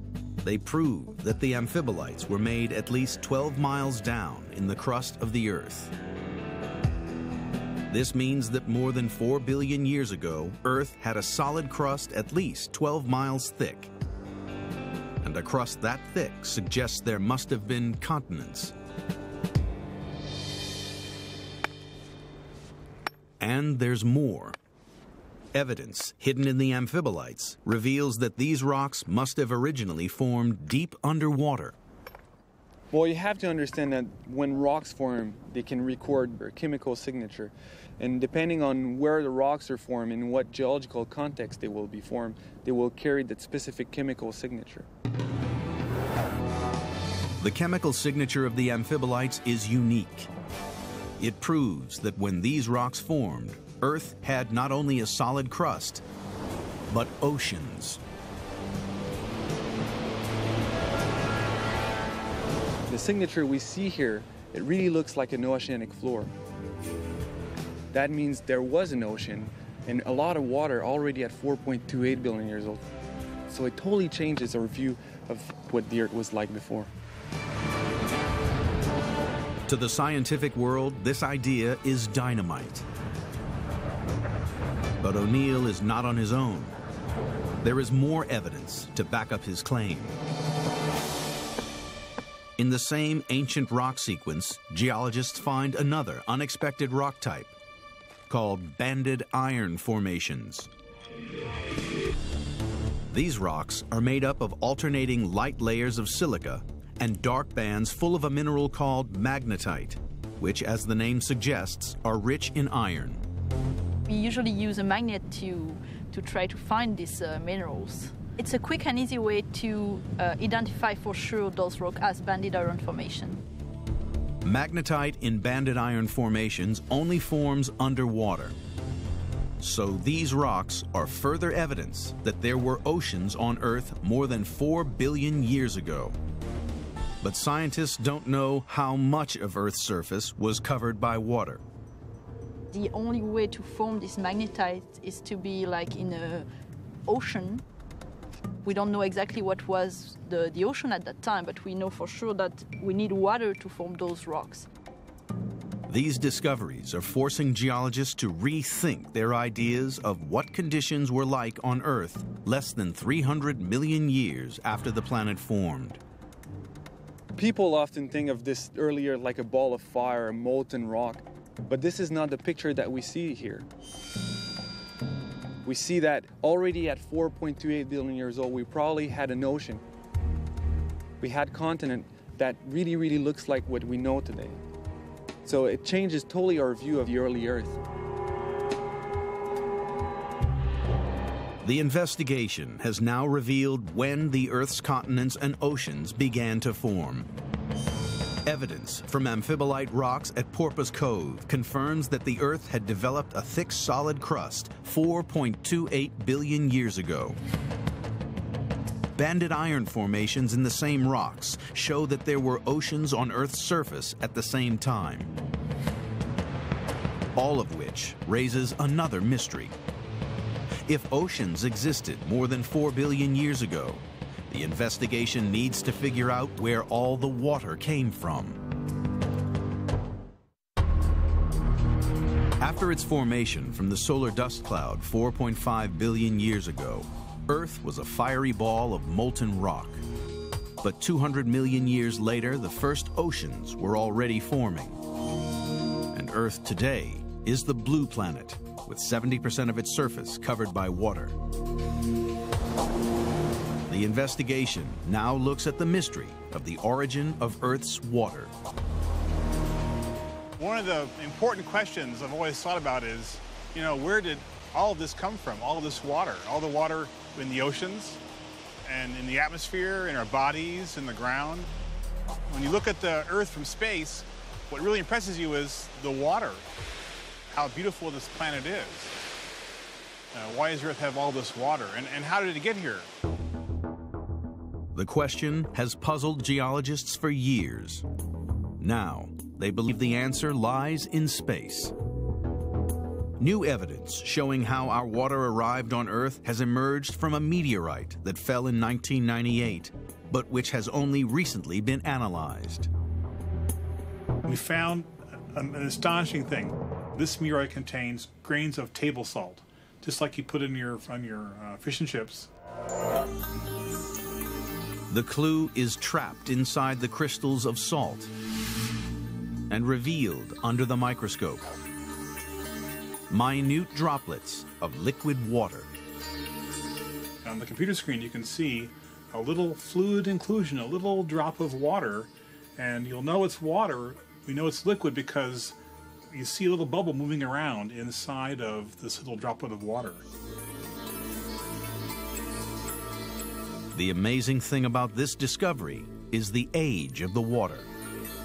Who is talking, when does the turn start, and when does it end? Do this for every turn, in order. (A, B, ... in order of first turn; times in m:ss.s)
0:00.4-0:05.9 A
0:07.9-0:13.9 A
0:15.2-0:18.7 A
0:23.4-0:24.6 A
0:25.5-0:31.7 A
0:32.9-0:44.9 B
0:47.4-0:50.3 A
0:51.2-0:56.0 A
0:56.9-0:58.0 A
1:02.9-1:06.3 B
1:07.9-1:12.8 B
1:13.5-1:16.9 B
1:19.7-1:22.9 A
1:25.0-1:26.8 A
1:27.6-1:30.2 A
1:32.6-1:37.5 A
1:38.3-1:40.7 A
1:43.1-1:53.2 A
1:54.1-2:03.4 C
2:04.4-2:08.5 A
2:09.6-2:16.2 A
2:17.2-2:21.6 A
2:22.7-2:26.5 C
2:27.0-2:27.6 C
2:28.6-2:34.7 C
2:35.9-2:46.0 A
2:47.3-2:53.7 B
2:55.6-2:59.8 B
3:01.2-3:04.6 B
3:05.4-3:07.8 B
3:11.6-3:17.3 A
3:18.4-3:27.4 A
3:29.1-3:35.3 A
3:37.4-3:39.7 A
3:40.9-3:48.6 A
3:52.6-4:00.0 A
4:00.8-4:05.0 A
4:06.1-4:11.4 A
4:13.9-4:18.5 A
4:20.6-4:28.2 D
4:28.8-4:31.7 D
4:32.5-4:36.6 D
4:37.5-4:39.1 D
4:40.3-4:43.1 D
4:44.9-4:48.0 A
4:48.8-4:51.9 A
4:53.4-5:02.9 A
5:04.4-5:12.5 D
5:15.1-5:18.3 A
5:19.7-5:21.7 A
5:23.3-5:25.9 A
5:27.4-5:35.8 D
5:36.3-5:40.2 D
5:43.9-5:47.9 A